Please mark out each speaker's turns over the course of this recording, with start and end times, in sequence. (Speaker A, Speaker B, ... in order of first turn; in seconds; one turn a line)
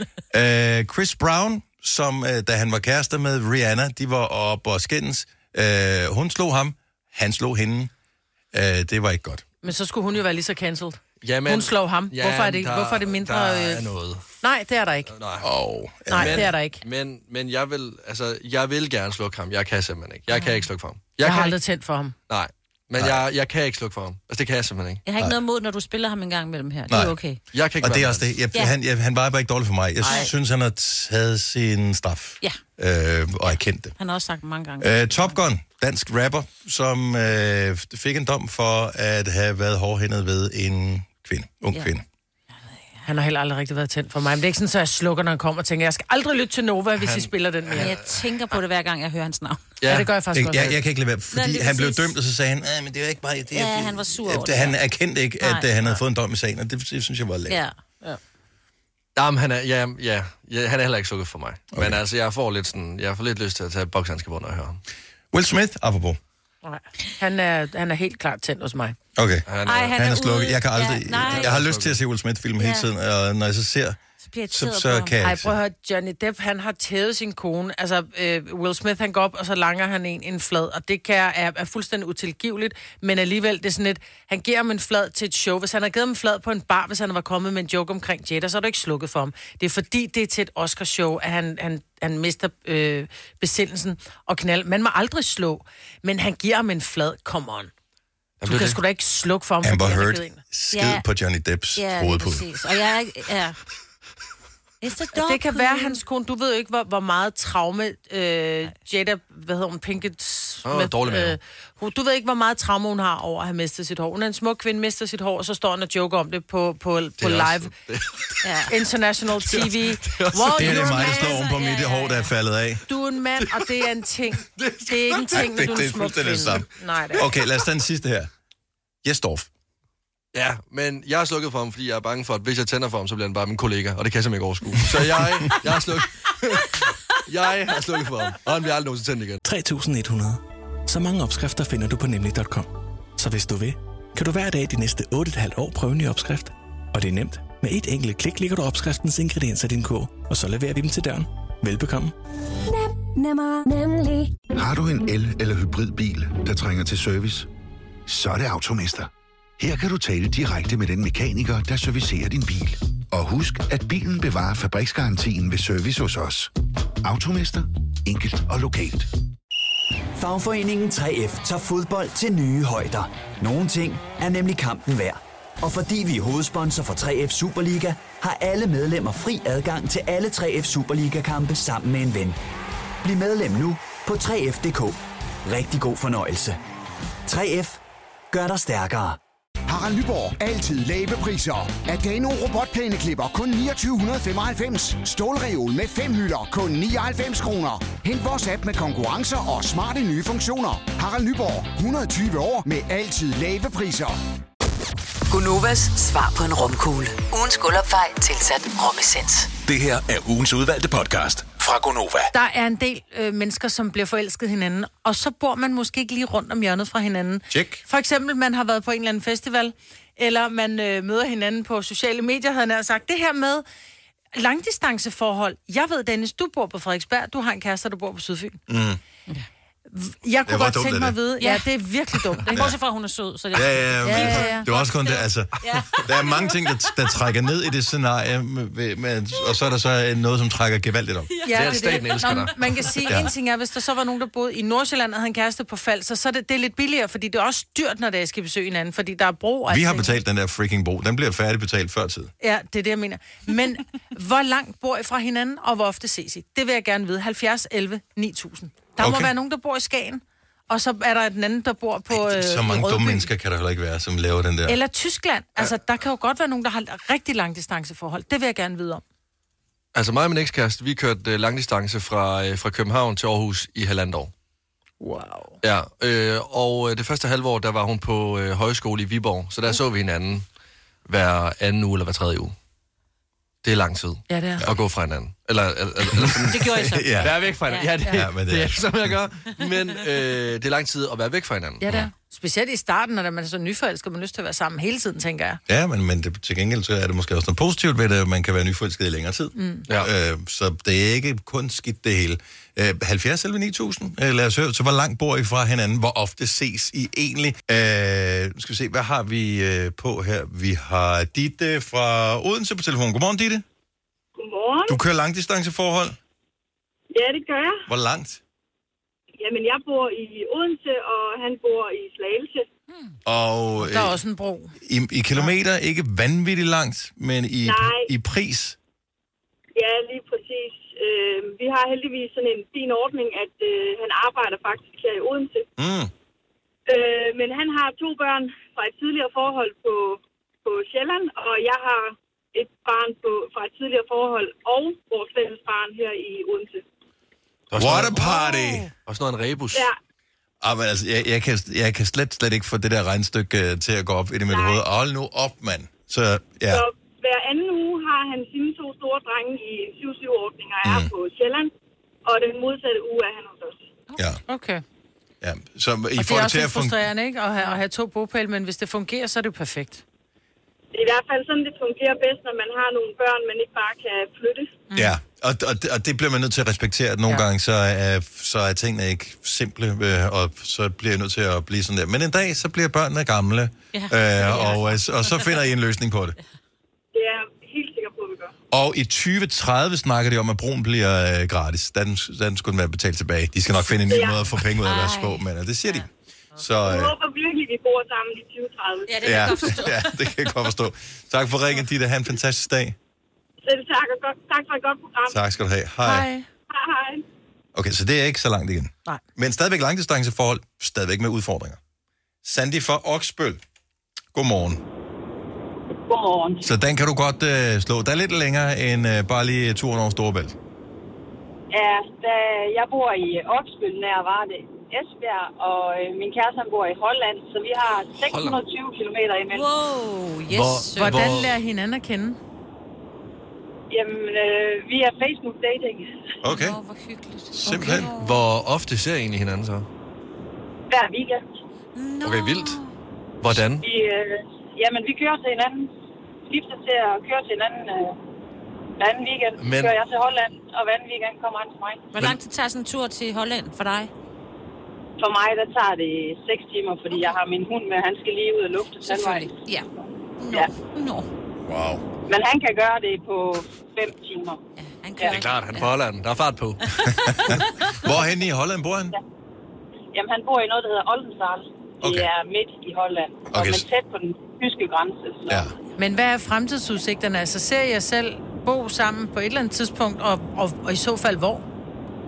Speaker A: 0.3-7.9
Speaker A: 8.5-9.4
Speaker B: 9.6-13.8
Speaker C: 11.2-14.2
Speaker B: 14.4-15.1
Speaker C: 15.1-15.5
Speaker A: 15.4-16.5
Speaker B: 16.1-16.8
Speaker C: 16.1-21.6
Speaker D: 20.3-20.6
Speaker B: 21.2-22.1
Speaker C: 22.3-25.0
Speaker D: 25.0-27.4
Speaker A: 26.9-27.2
Speaker C: 27.5-28.3
Speaker A: 27.8-33.9
Speaker D: 30.0-30.3
Speaker D: 34.0-35.2
Speaker A: 34.8-42.0
Speaker B: 43.0-47.9
Speaker C: 47.0-48.2
Speaker D: 47.7-49.6
Speaker C: 49.8-50.8
Speaker B: 49.8-50.7
Speaker A: 50.3-57.6
Speaker D: 51.3-52.1
Speaker D: 53.5-54.8
Speaker D: 55.4-55.7
Speaker D: 57.5-57.7
Speaker C: 59.1-64.8
Speaker A: 61.7-62.0
Speaker A: 65.3-66.2
Speaker B: 66.6-69.0
Speaker A: 69.2-74.0
Speaker C: 69.5-70.0
Speaker D: 69.6-71.6
Speaker C: 71.2-72.0
Speaker D: 72.6-72.9
Speaker D: 74.2-75.1
Speaker A: 74.5-75.5
Speaker B: 75.2-97.7
Speaker C: 98.4-98.8
Speaker B: 98.4-100.4
Speaker A: 99.6-102.5
Speaker D: 100.7-101.0
Speaker D: 101.8-103.6
Speaker D: 104.8-106.0
Speaker B: 105.2-117.7
Speaker C: 110.6-111.4
Speaker C: 117.2-118.4
Speaker D: 118.4-118.8
Speaker B: 118.7-121.3
Speaker C: 119.4-120.7
Speaker A: 120.5-122.8
Speaker D: 120.6-122.3
Speaker B: 122.9-127.2
Speaker C: 123.4-123.8
Speaker C: 124.4-126.5
Speaker A: 125.3-128.3
Speaker A: 129.0-129.5
Speaker C: 130.3-139.4
Speaker E: 139.4-152.1
Speaker F: 154.5-157.5
Speaker F: 158.1-166.5
Speaker F: 167.0-169.1
Speaker G: 170.1-182.4
Speaker G: 183.0-186.6
Speaker G: 187.2-187.8
Speaker G: 188.3-189.2
Speaker H: 189.7-204.2
Speaker I: 205.3-209.5
Speaker J: 209.7-212.3
Speaker B: 212.3-223.6
Speaker A: 217.5-217.8
Speaker B: 224.3-228.6
Speaker A: 228.7-229.0
Speaker B: 229.9-232.7
Speaker A: 230.4-231.2
Speaker D: 231.4-231.7
Speaker D: 232.4-237.0
Speaker A: 232.5-232.8
Speaker A: 233.5-241.3
Speaker B: 234.0-234.7
Speaker D: 241.3-242.5
Speaker B: 241.4-250.2
Speaker C: 241.5-242.9
Speaker A: 249.7-252.3
Speaker B: 252.4-263.3
Speaker A: 259.0-259.3
Speaker A: 262.1-264.8
Speaker B: 264.7-269.0
Speaker C: 269.9-274.3
Speaker B: 275.0-275.6
Speaker C: 275.6-280.4
Speaker C: 281.1-282.5
Speaker C: 283.6-291.8
Speaker B: 284.3-284.6
Speaker A: 286.2-287.4
Speaker D: 286.5-287.9
Speaker A: 288.1-289.1
Speaker B: 291.8-295.6
Speaker A: 295.7-313.6
Speaker B: 299.6-299.8
Speaker K: 314.4-315.0
Speaker A: 314.9-316.2
Speaker K: 317.1-317.8
Speaker A: 317.9-318.4
Speaker K: 319.4-322.7
Speaker A: 323.2-324.2
Speaker B: 323.8-324.7
Speaker A: 324.8-328.8
Speaker K: 327.6-328.1
Speaker K: 329.7-335.7
Speaker A: 335.8-336.1
Speaker K: 336.9-346.8
Speaker C: 347.7-348.3
Speaker A: 347.7-348.9
Speaker B: 348.2-348.9
Speaker C: 349.1-349.9
Speaker A: 350.6-356.8
Speaker K: 354.5-354.8
Speaker K: 356.7-361.7
Speaker A: 360.8-361.1
Speaker K: 362.2-363.9
Speaker B: 364.5-364.8
Speaker A: 365.4-367.1
Speaker B: 366.2-370.0
Speaker K: 370.9-374.8
Speaker B: 374.9-375.1
Speaker A: 374.9-386.4
Speaker D: 383.9-385.0
Speaker K: 387.1-388.5
Speaker A: 388.7-397.1
Speaker K: 394.1-394.5
Speaker D: 394.6-396.0
Speaker K: 396.8-399.6
Speaker D: 399.1-400.4
Speaker A: 399.2-402.9
Speaker K: 403.6-405.4
Speaker A: 405.3-406.3
Speaker B: 406.0-406.5
Speaker K: 406.7-407.2
Speaker A: 407.7-411.8
Speaker A: 412.4-413.6
Speaker A: 414.3-414.8
Speaker L: 416.1-416.7
Speaker A: 416.6-420.6
Speaker L: 421.7-429.7
Speaker C: 428.2-428.6
Speaker D: 429.5-431.4
Speaker C: 430.5-431.6
Speaker B: 430.9-432.4
Speaker L: 433.9-436.2
Speaker A: 436.4-436.8
Speaker D: 436.5-438.4
Speaker A: 437.5-438.1
Speaker C: 438.1-439.9
Speaker L: 440.9-441.4
Speaker D: 441.9-442.9
Speaker C: 442.2-442.8
Speaker C: 443.4-443.8
Speaker L: 443.8-445.9
Speaker L: 446.5-448.1
Speaker L: 449.0-452.1
Speaker C: 449.6-449.9
Speaker D: 452.1-454.1
Speaker L: 455.2-459.5
Speaker D: 457.1-457.4
Speaker D: 459.0-459.9
Speaker D: 460.4-461.3
Speaker A: 461.6-462.0
Speaker L: 462.3-464.6
Speaker D: 464.8-465.9
Speaker C: 465.2-467.1
Speaker D: 466.9-468.0
Speaker A: 467.3-469.1
Speaker L: 470.1-475.7
Speaker A: 472.0-472.3
Speaker A: 473.5-473.9
Speaker A: 475.5-475.7
Speaker B: 476.0-481.6